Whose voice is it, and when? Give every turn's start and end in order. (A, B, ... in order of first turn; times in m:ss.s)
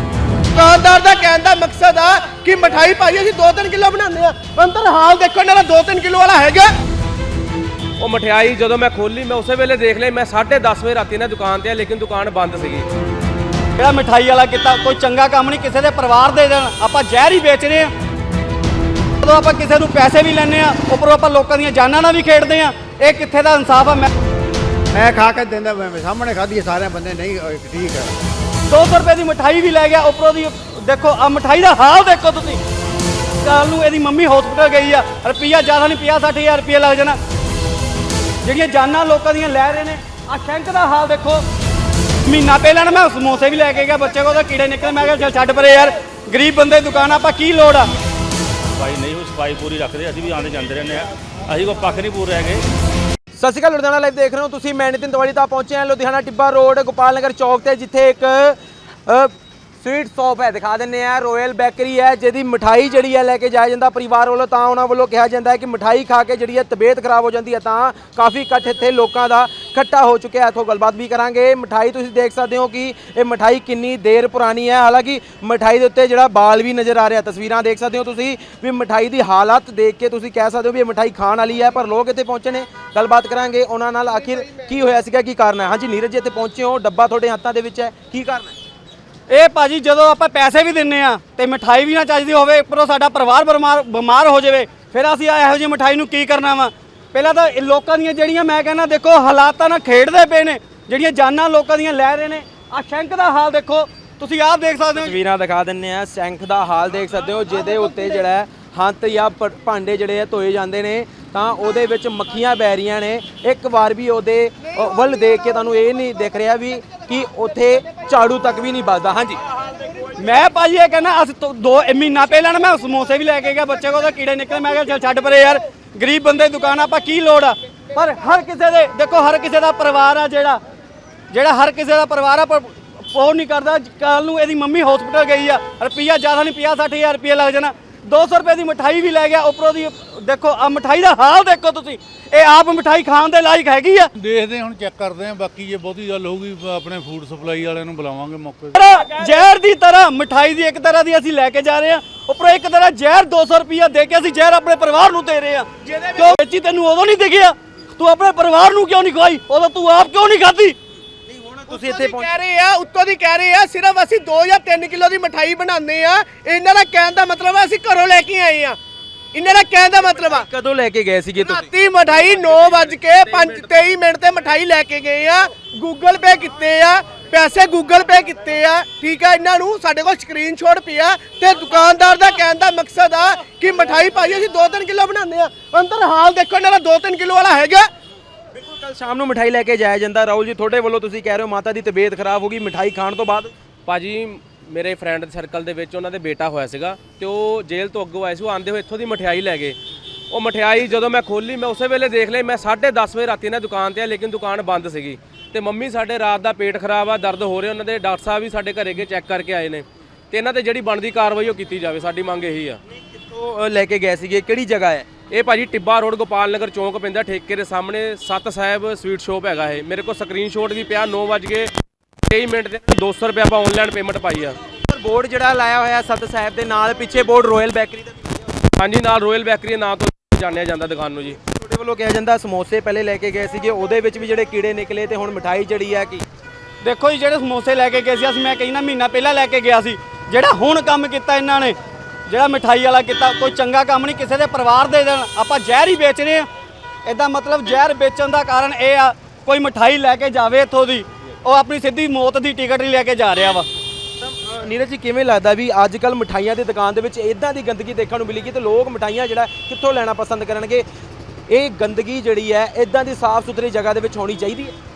0:00.5-0:06.7 A
0:08.0-0:12.9 B
0:13.8-0:17.9 C
0:19.2-0:24.1 C
0:24.9-0:28.1 D
0:28.7-0:32.6 C
0:33.4-0:37.2 C
0:38.4-0:41.4 C
0:42.2-0:47.9 C
0:48.7-0:52.6 E
0:53.4-1:28.5 F
1:29.3-1:45.1 C
1:44.9-1:59.4 F
2:00.2-2:10.6 C
2:11.3-2:24.1 C
2:24.1-2:28.8 G
2:28.7-2:40.8 C
2:29.1-2:29.4 A
2:35.8-2:36.4 A
2:41.3-2:42.3 F
2:41.7-2:48.8 A
2:49.3-2:50.4 A
2:50.0-2:51.7 F
2:51.4-3:07.9 A
2:52.1-2:53.9 B
3:08.5-3:13.5 F
3:13.9-3:19.8 B
3:20.3-3:32.8 B
3:32.9-3:35.2 F
3:35.3-3:41.7 B
3:42.3-3:44.6 B
3:44.8-3:48.3 F
3:48.8-3:51.4 B
3:51.3-3:56.2 F
3:56.8-4:06.5 C
4:07.0-4:13.7 C
4:14.2-4:20.8 F
4:21.5-4:24.8 F